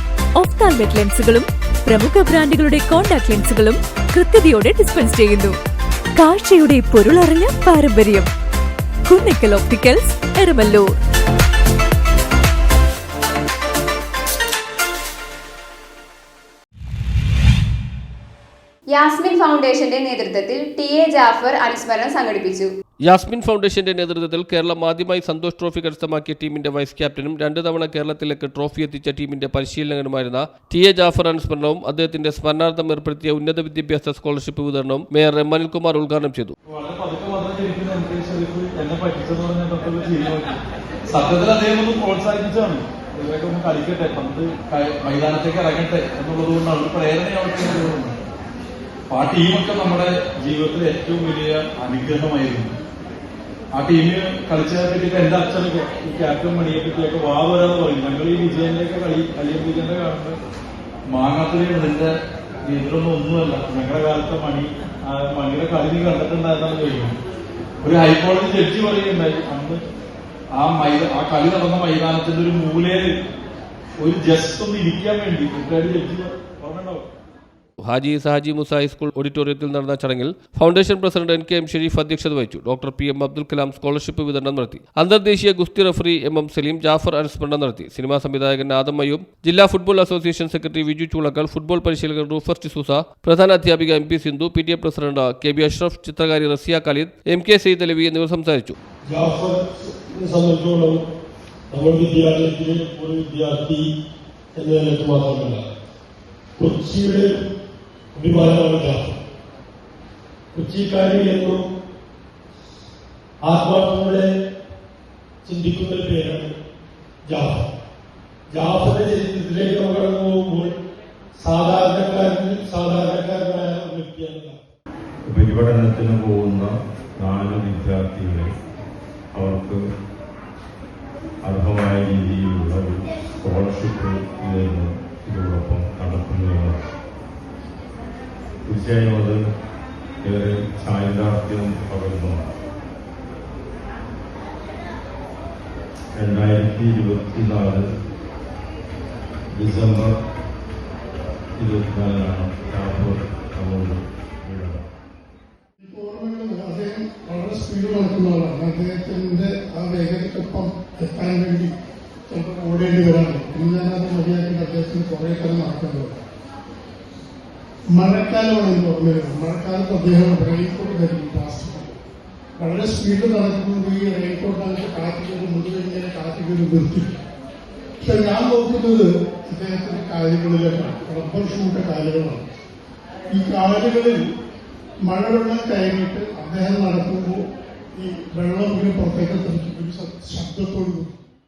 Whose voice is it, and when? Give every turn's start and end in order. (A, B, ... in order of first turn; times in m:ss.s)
0:00.4-0:05.5 A
0:06.2-0:08.3 A
0:09.1-0:11.0 A
0:18.9-0:22.7 B
0:23.0-0:36.5 C
0:36.7-0:40.6 D
0:41.1-0:48.2 D
0:49.1-0:52.7 D
0:53.7-1:00.3 D
1:01.1-1:02.1 D
1:02.6-1:07.1 D
1:07.8-1:09.8 D
1:10.6-1:13.1 D
1:14.0-1:17.1 D
1:17.8-1:38.7 C
1:39.0-1:41.0 E
1:41.7-1:43.9 E
1:44.5-1:45.7 E
1:46.6-1:47.4 E
1:48.1-1:49.1 E
1:50.5-1:51.6 E
1:53.4-1:54.3 E
1:55.4-1:56.5 E
1:57.2-1:57.6 E
1:58.5-2:00.8 E
2:01.4-2:04.6 E
2:05.3-2:08.5 F
2:09.3-2:09.8 F
2:11.4-2:16.8 F
2:18.7-2:19.4 F
2:20.2-2:22.5 F
2:26.1-2:27.8 F
2:29.5-2:30.1 F
2:31.6-2:34.8 F
2:35.8-2:41.7 G
2:42.3-2:46.2 G
2:47.9-2:51.9 G
2:52.6-2:57.1 G
2:58.0-3:02.5 G
3:03.3-3:04.2 G
3:05.0-3:07.4 G
3:07.9-3:11.2 G